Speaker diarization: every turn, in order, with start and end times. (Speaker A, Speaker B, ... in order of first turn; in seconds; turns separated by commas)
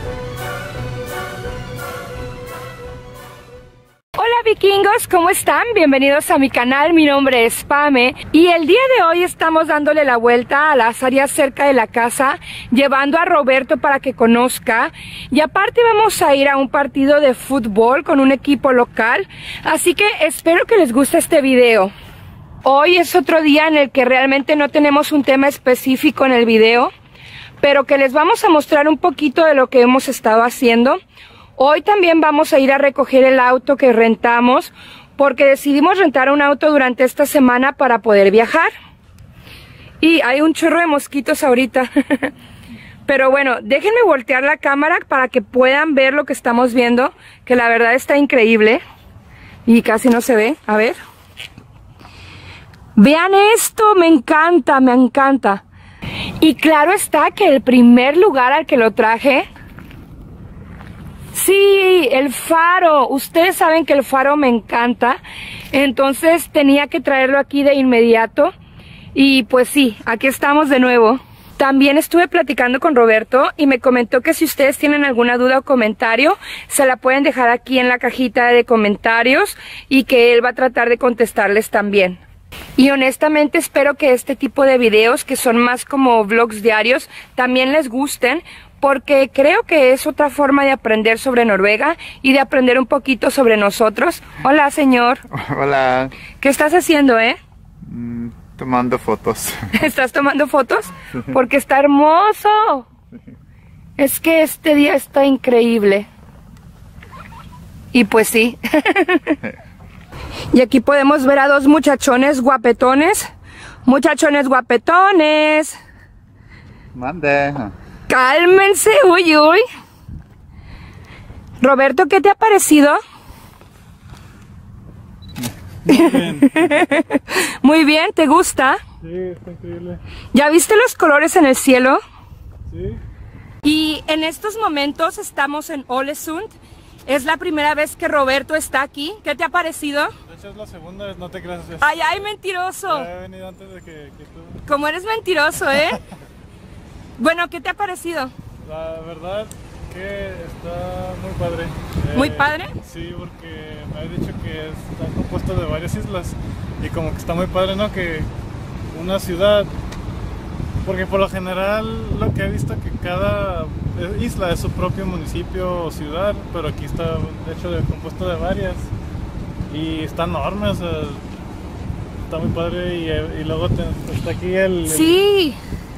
Speaker A: 4.1-21.9, Speaker A: 22.6-26.9, Speaker A: 27.6-31.0, Speaker A: 31.6-38.7, Speaker A: 40.0-42.3, Speaker A: 43.1-48.8, Speaker A: 49.7-51.0, Speaker A: 53.0-55.6, Speaker A: 56.4-59.5, Speaker A: 61.3-65.2, Speaker A: 65.7-68.5, Speaker A: 69.2-82.2, Speaker A: 82.8-95.2, Speaker B: 95.3-96.2, Speaker A: 96.4-97.4, Speaker B: 97.8-99.7, Speaker A: 99.8-102.8, Speaker A: 104.0-106.1, Speaker A: 107.9-109.4, Speaker A: 110.5-113.3, Speaker A: 113.8-115.8, Speaker B: 116.9-117.7, Speaker A: 118.1-119.6, Speaker A: 121.6-123.0, Speaker C: 125.9-126.7, Speaker A: 125.9-128.8, Speaker C: 129.0-130.0, Speaker A: 130.3-132.0, Speaker C: 132.7-133.0, Speaker A: 133.6-136.5, Speaker A: 137.1-140.1, Speaker C: 140.3-142.2, Speaker A: 141.8-143.1, Speaker C: 142.9-144.6, Speaker A: 144.7-146.0, Speaker A: 147.2-148.3, Speaker C: 148.7-158.3, Speaker A: 152.1-152.7, Speaker C: 158.9-159.7, Speaker C: 160.8-168.9, Speaker C: 169.7-171.2, Speaker C: 172.3-175.2, Speaker A: 174.9-175.6